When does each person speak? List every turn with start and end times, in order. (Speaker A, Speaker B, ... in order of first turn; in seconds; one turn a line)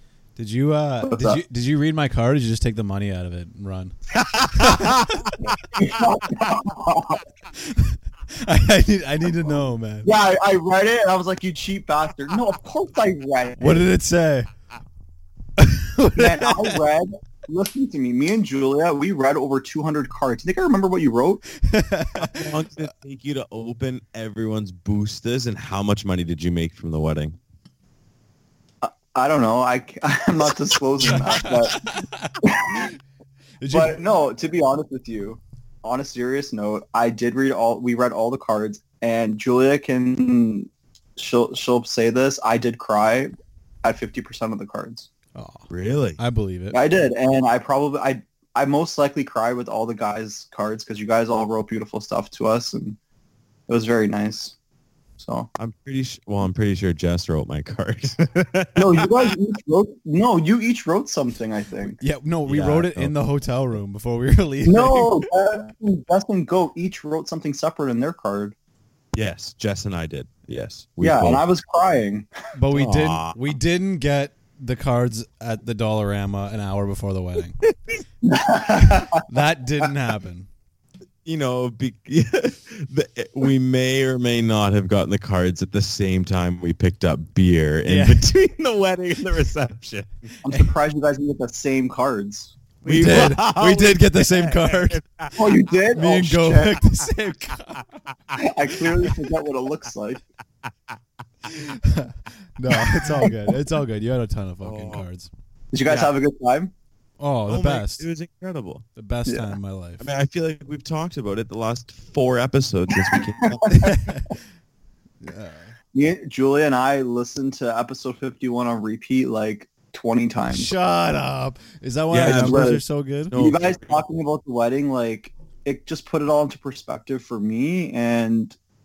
Speaker A: 0.3-3.9
Speaker B: 1.0-1.4
Speaker C: 4.2-5.9
Speaker A: 4.6-5.2
Speaker B: 5.5-7.2
Speaker A: 7.6-10.1
Speaker B: 10.0-13.9
Speaker A: 13.6-14.5
Speaker A: 15.6-16.8
Speaker B: 16.1-21.4
Speaker A: 21.6-22.5
Speaker C: 22.2-27.4
Speaker B: 28.8-31.9
Speaker A: 31.0-32.9
Speaker B: 32.4-32.9
Speaker A: 33.6-34.0
Speaker B: 33.7-43.3
Speaker B: 43.8-45.1
Speaker A: 45.3-46.8
Speaker C: 45.7-46.2
Speaker B: 46.7-53.0
Speaker B: 53.7-54.5
Speaker B: 55.2-55.5
Speaker C: 55.5-59.3
Speaker B: 58.8-62.0
Speaker A: 62.0-65.2
Speaker C: 62.5-63.1
Speaker B: 64.7-68.5
Speaker C: 69.1-71.4
Speaker B: 71.0-72.3
Speaker A: 72.5-77.6
Speaker C: 72.7-73.4
Speaker B: 78.2-79.2
Speaker A: 79.1-80.5
Speaker C: 81.2-90.1
Speaker A: 87.8-88.2
Speaker B: 90.4-92.6
Speaker C: 92.8-95.7
Speaker A: 92.8-95.0
Speaker B: 95.3-96.8
Speaker A: 95.9-97.8
Speaker B: 98.3-100.2
Speaker C: 100.7-100.9
Speaker A: 101.5-105.3
Speaker B: 102.8-103.3
Speaker C: 104.6-105.1
Speaker B: 105.7-106.7
Speaker A: 107.2-108.0
Speaker C: 107.5-108.8
Speaker A: 109.0-110.0
Speaker B: 109.2-109.5
Speaker C: 110.0-114.0
Speaker B: 113.0-113.9
Speaker A: 113.7-114.4
Speaker A: 115.2-115.7
Speaker B: 115.9-120.7
Speaker A: 120.5-123.3
Speaker C: 122.1-122.7
Speaker B: 122.2-122.8
Speaker C: 123.3-124.0
Speaker B: 123.3-128.6